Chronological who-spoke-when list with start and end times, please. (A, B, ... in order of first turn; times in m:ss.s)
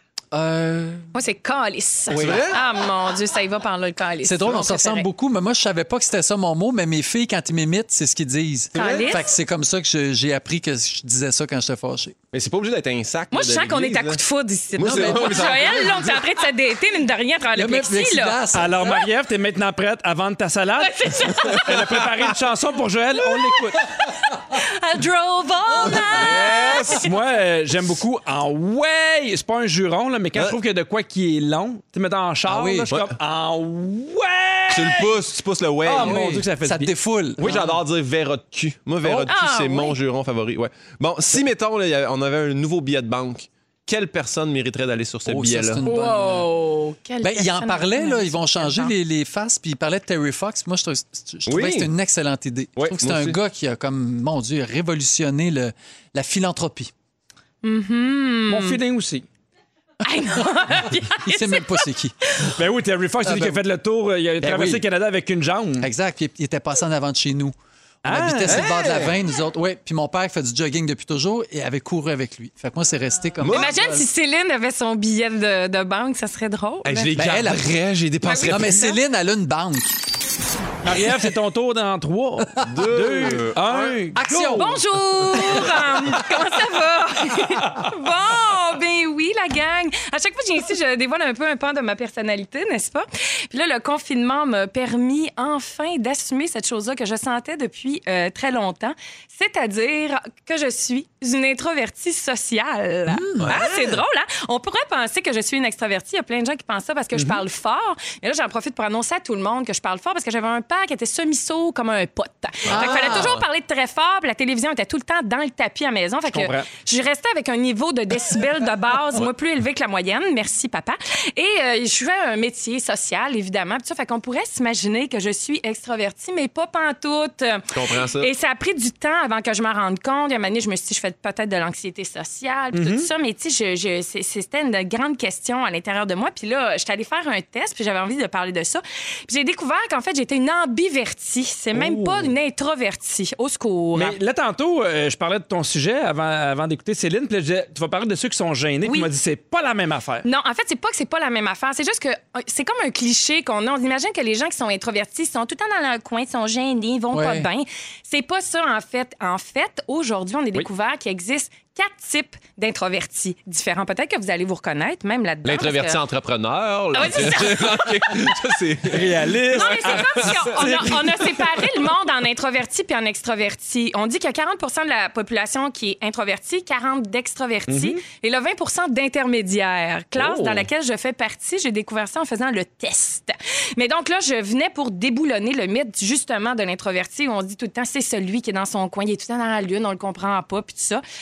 0:00.3-0:01.1 A
0:01.1-0:05.1 B
0:02.1-0:02.4 A
0:02.1-0:02.6 C
0:04.2-0:12.2 A
0:08.8-0:09.1 C
0:08.8-0:09.3 B
0:12.3-0:14.2 C
0:13.3-0:18.4 B
0:14.8-0:16.2 C
0:14.8-0:15.8 A
0:17.5-0:19.0 A
0:18.5-0:23.9 D
0:20.8-0:22.0 B
0:24.0-0:27.1 B
0:25.9-0:27.0 C
0:26.9-0:35.1 D
0:32.5-0:32.9 A
0:34.7-0:36.2 C
0:35.8-0:37.7 D
0:35.9-0:37.8 A
0:37.4-0:45.8 C
0:39.0-0:39.3 A
0:39.3-0:40.0 B
0:45.3-0:46.5 A
0:45.8-0:48.9 B
0:47.2-0:56.9 A
0:51.5-0:51.9 C
0:52.8-0:53.4 C
0:57.6-0:58.8 B
0:58.5-0:59.2 D
1:00.0-1:02.5 B
1:01.2-1:02.1 A
1:02.5-1:05.9 D
1:03.2-1:03.6 A
1:04.4-1:04.8 A
1:05.8-1:14.0 A
1:08.0-1:08.6 D
1:08.5-1:09.2 C
1:13.4-1:13.8 C
1:13.5-1:17.1 B
1:16.8-1:18.9 C
1:17.1-1:17.7 A
1:18.2-1:19.0 B
1:18.4-1:20.0 A
1:20.8-1:24.7 D
1:22.6-1:24.0 C
1:24.1-1:25.4 A
1:24.6-2:24.2 B
1:43.1-1:43.5 A
1:43.4-1:44.0 C
1:52.7-1:53.4 C
1:52.7-1:53.4 A
1:56.3-1:56.7 D
2:07.7-2:08.3 C
2:12.7-2:13.1 D
2:21.7-2:22.3 D
2:24.0-2:30.3 D
2:28.8-2:29.1 B
2:30.2-2:46.0 B
2:37.1-2:37.5 A
2:45.4-2:50.8 C
2:46.9-2:48.2 B
2:48.9-2:51.1 D
2:49.5-3:11.0 B
2:57.7-2:58.0 D
3:00.2-3:00.7 D